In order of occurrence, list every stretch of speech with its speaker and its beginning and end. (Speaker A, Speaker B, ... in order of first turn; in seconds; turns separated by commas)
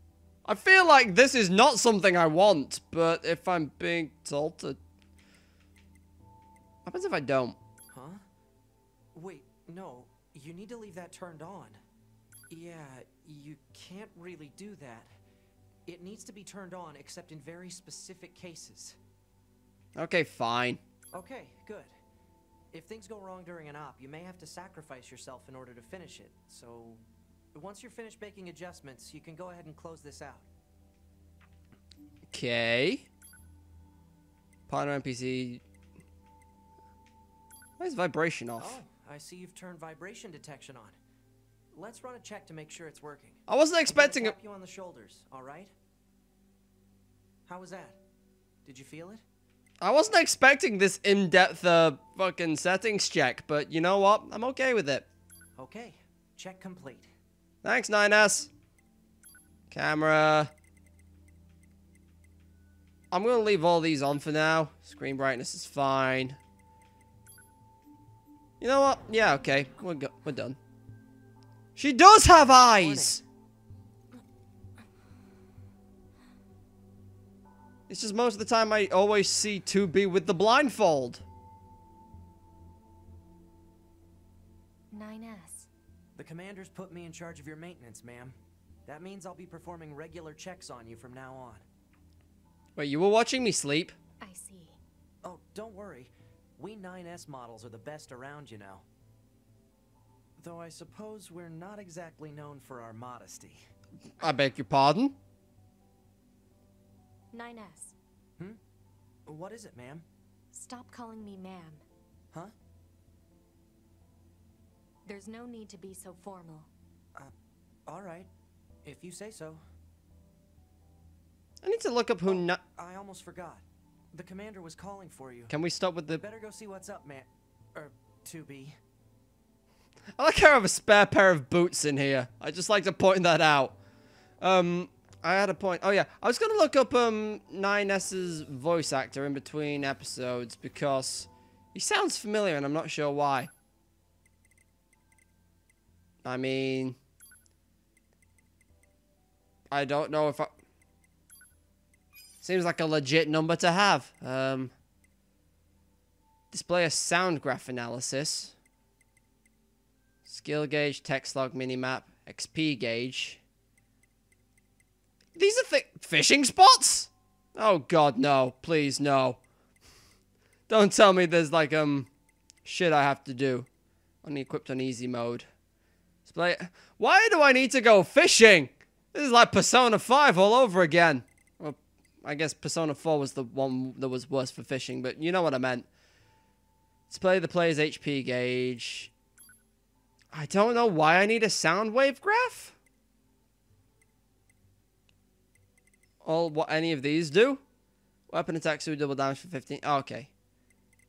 Speaker A: 0.5-4.8, Speaker A: 6.8-7.6, Speaker B: 7.9-8.2, Speaker B: 9.1-11.8, Speaker B: 12.5-15.1, Speaker B: 15.9-19.0, Speaker A: 20.0-20.8, Speaker B: 21.1-21.9, Speaker B: 22.7-27.0, Speaker B: 27.5-30.5, Speaker A: 32.3-33.1, Speaker A: 34.7-35.6, Speaker A: 37.8-38.8, Speaker B: 38.6-41.0, Speaker B: 41.7-45.7, Speaker A: 43.5-44.4, Speaker B: 47.5-48.0, Speaker B: 48.6-49.2, Speaker A: 49.8-55.1, Speaker B: 55.6-57.1, Speaker A: 57.6-58.5, Speaker A: 59.7-60.5, Speaker A: 63.1-66.4, Speaker A: 68.6-70.6, Speaker A: 71.8-73.2, Speaker B: 72.8-73.2, Speaker A: 77.9-81.2, Speaker C: 84.9-85.7, Speaker B: 86.2-91.7, Speaker A: 92.8-94.0, Speaker C: 94.2-94.8, Speaker B: 95.2-98.9, Speaker B: 100.4-103.6, Speaker A: 104.2-105.2, Speaker C: 107.3-108.0, Speaker B: 109.3-110.1, Speaker C: 110.5-111.8, Speaker C: 115.0-116.7, Speaker B: 117.9-118.3, Speaker B: 118.8-119.6, Speaker A: 121.6-122.6, Speaker B: 122.3-125.5, Speaker A: 125.5-126.2, Speaker B: 126.1-128.8, Speaker A: 130.2-133.8, Speaker A: 134.4-143.5, Speaker A: 146.2-147.0, Speaker A: 149.7-150.5, Speaker A: 152.4-154.7, Speaker A: 156.5-158.5, Speaker A: 160.3-163.4, Speaker A: 165.4-169.4, Speaker A: 170.7-172.1, Speaker A: 172.7-173.7, Speaker A: 174.2-175.5, Speaker A: 176.3-185.9, Speaker A: 187.1-189.1, Speaker A: 190.3-192.8, Speaker A: 196.2-197.6, Speaker A: 198.3-200.3